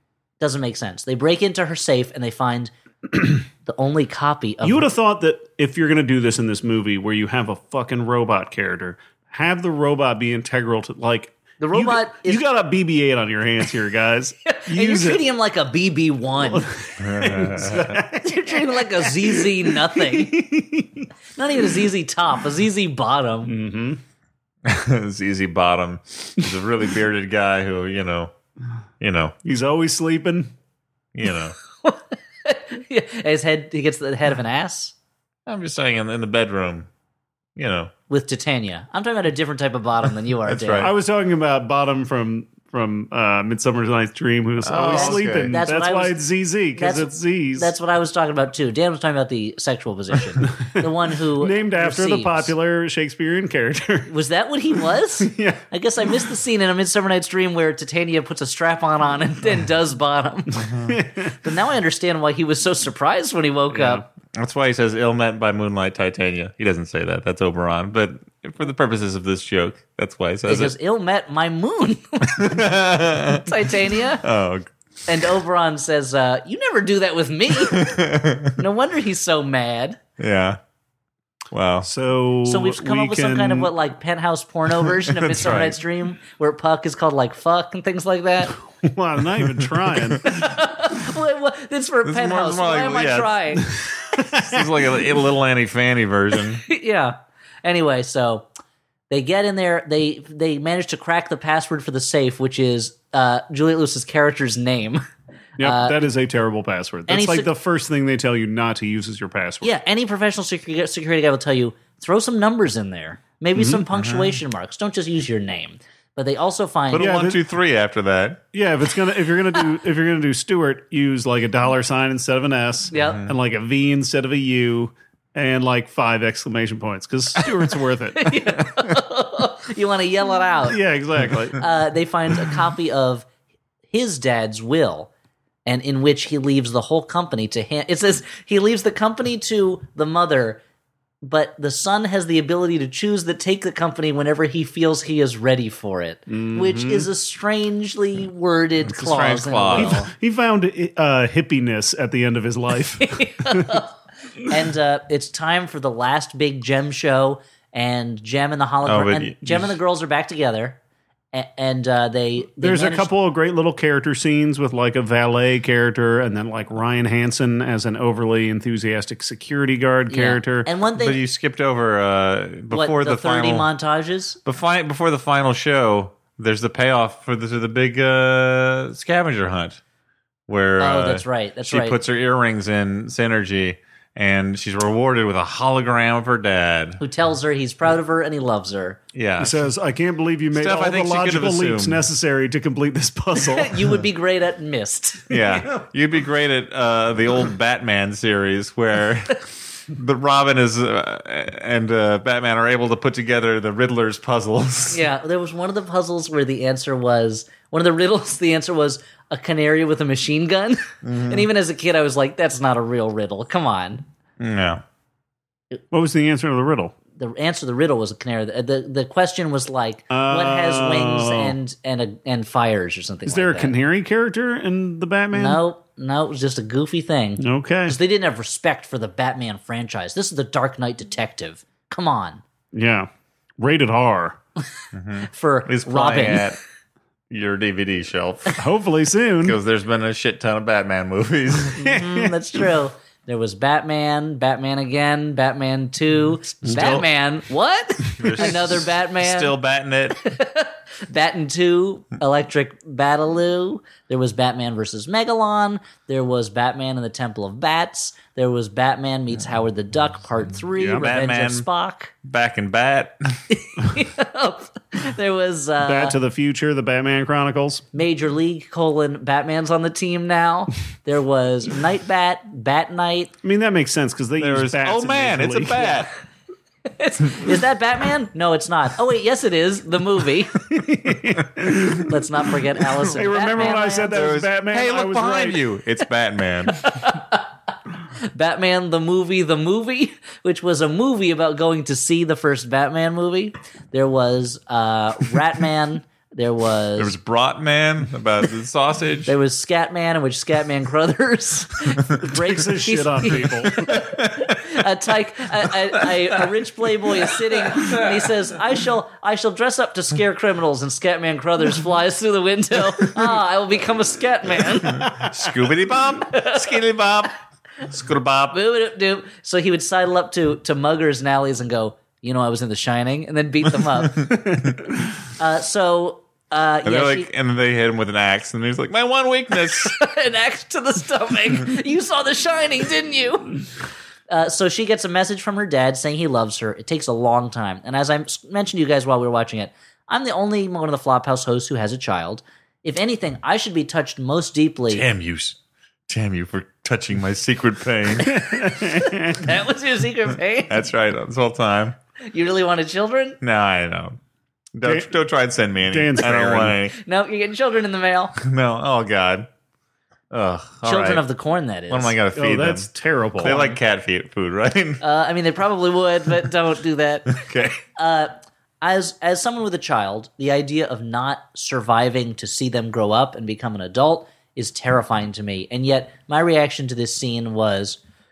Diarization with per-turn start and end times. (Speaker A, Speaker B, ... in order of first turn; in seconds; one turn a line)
Speaker A: 0.4-2.7
Speaker A: 3.6-4.9
Speaker B: 4.6-15.2
Speaker A: 11.6-12.4
Speaker A: 14.4-16.6
Speaker B: 16.3-21.1
Speaker C: 17.0-18.0
Speaker A: 18.2-20.5
Speaker A: 21.4-23.5
Speaker B: 23.4-24.0
Speaker C: 24.6-28.3
Speaker C: 29.0-29.3
Speaker B: 29.4-30.5
Speaker C: 31.1-31.6
Speaker A: 31.8-34.9
Speaker C: 35.5-36.9
Speaker C: 37.5-37.9
Speaker A: 38.1-40.9
Speaker C: 40.5-40.9
Speaker B: 40.8-47.7
Speaker C: 44.6-45.5
Speaker A: 44.9-46.2
Speaker A: 46.7-52.5
Speaker B: 50.7-54.1
Speaker A: 54.1-60.7
Speaker B: 55.2-55.6
Speaker B: 60.8-61.3
Speaker A: 61.4-64.0
Speaker B: 63.7-64.0
Speaker C: 64.3-70.7
Speaker A: 70.5-72.6
Speaker C: 72.3-73.5
Speaker A: 73.4-74.2
Speaker C: 74.2-74.7
Speaker A: 75.1-78.0
Speaker C: 77.7-78.5
Speaker A: 78.5-80.0
Speaker C: 80.2-80.6
Speaker C: 81.5-81.9
Speaker B: 81.8-83.7
Speaker A: 82.5-88.5
Speaker C: 85.0-85.8
Speaker B: 88.8-90.3
Speaker A: 90.2-93.7
Speaker C: 92.0-93.3
Speaker B: 93.8-94.7
Speaker C: 94.2-96.6
Speaker A: 96.7-98.5
Speaker A: 99.1-105.0
Speaker B: 105.6-109.7
Speaker A: 105.6-106.0
Speaker A: 107.1-107.5
Speaker A: 109.6-117.2
Speaker C: 113.6-114.4
Speaker C: 116.9-118.4
Speaker B: 117.0-117.4
Speaker B: 118.5-128.4
Speaker A: 122.9-123.2
Speaker C: 122.9-123.3
Speaker A: 128.2-130.8
Speaker B: 130.7-131.6
Speaker A: 131.5-133.3
Speaker A: 133.9-135.1
Speaker A: 135.7-140.6
Speaker A: 141.2-150.1
Speaker B: 146.3-147.1
Speaker C: 148.8-150.0
Speaker B: 149.7-153.8
Speaker A: 153.0-153.9
Speaker A: 154.4-160.8
Speaker C: 158.8-159.7
Speaker A: 161.3-163.1
Speaker B: 162.6-170.7
Speaker A: 170.1-171.2
Speaker C: 171.0-173.7
Speaker A: 172.7-174.4
Speaker C: 174.4-179.8
Speaker C: 180.5-187.0
Speaker A: 180.8-182.0
Speaker A: 187.0-189.0
Speaker C: 189.1-189.7
Speaker B: 189.4-194.0
Speaker C: 190.5-192.0
Speaker A: 193.4-195.5
Speaker C: 195.3-205.0
Speaker A: 204.9-214.0
Speaker C: 211.0-211.5
Speaker C: 214.4-214.8
Speaker B: 215.9-216.9
Speaker A: 217.2-223.7
Speaker B: 220.1-221.6
Speaker B: 223.2-225.6
Speaker A: 225.3-232.4
Speaker B: 227.4-228.0
Speaker B: 232.7-234.4
Speaker C: 234.9-236.6
Speaker A: 235.3-236.4
Speaker C: 237.3-238.6
Speaker B: 238.6-239.6
Speaker C: 239.4-241.8
Speaker B: 241.7-242.4
Speaker A: 241.8-249.5
Speaker C: 246.6-247.1
Speaker C: 248.2-250.2
Speaker A: 250.2-262.1
Speaker B: 260.8-261.0
Speaker C: 260.9-261.7
Speaker C: 262.2-263.4
Speaker A: 263.5-266.2
Speaker B: 265.8-267.8
Speaker A: 267.9-273.3
Speaker B: 273.4-276.0
Speaker C: 274.4-276.1
Speaker A: 276.9-280.6
Speaker B: 280.7-282.1
Speaker A: 282.0-284.2
Speaker B: 283.1-285.6
Speaker C: 284.1-286.8
Speaker A: 286.8-287.4
Speaker A: 288.3-297.1
Speaker C: 297.0-299.3
Speaker A: 299.2-315.1
Speaker B: 302.2-303.9
Speaker C: 303.9-304.6
Speaker C: 307.7-308.0
Speaker C: 314.9-317.3
Speaker A: 316.3-316.6
Speaker C: 317.9-318.6
Speaker A: 318.5-324.3
Speaker A: 325.4-327.3
Speaker C: 326.8-329.9
Speaker A: 329.7-333.6
Speaker A: 334.3-345.0
Speaker C: 344.9-345.6
Speaker C: 346.1-348.4
Speaker B: 348.3-349.4
Speaker A: 348.8-350.8
Speaker C: 350.7-351.9
Speaker A: 352.3-353.4
Speaker C: 353.4-354.2
Speaker C: 354.7-356.9
Speaker B: 354.8-355.1
Speaker B: 355.9-356.8
Speaker A: 356.9-358.4
Speaker C: 358.4-359.5
Speaker C: 360.3-361.2
Speaker A: 360.8-362.1
Speaker C: 361.9-365.0
Speaker B: 362.3-363.7
Speaker A: 365.0-367.4
Speaker C: 367.3-367.8
Speaker A: 367.9-378.0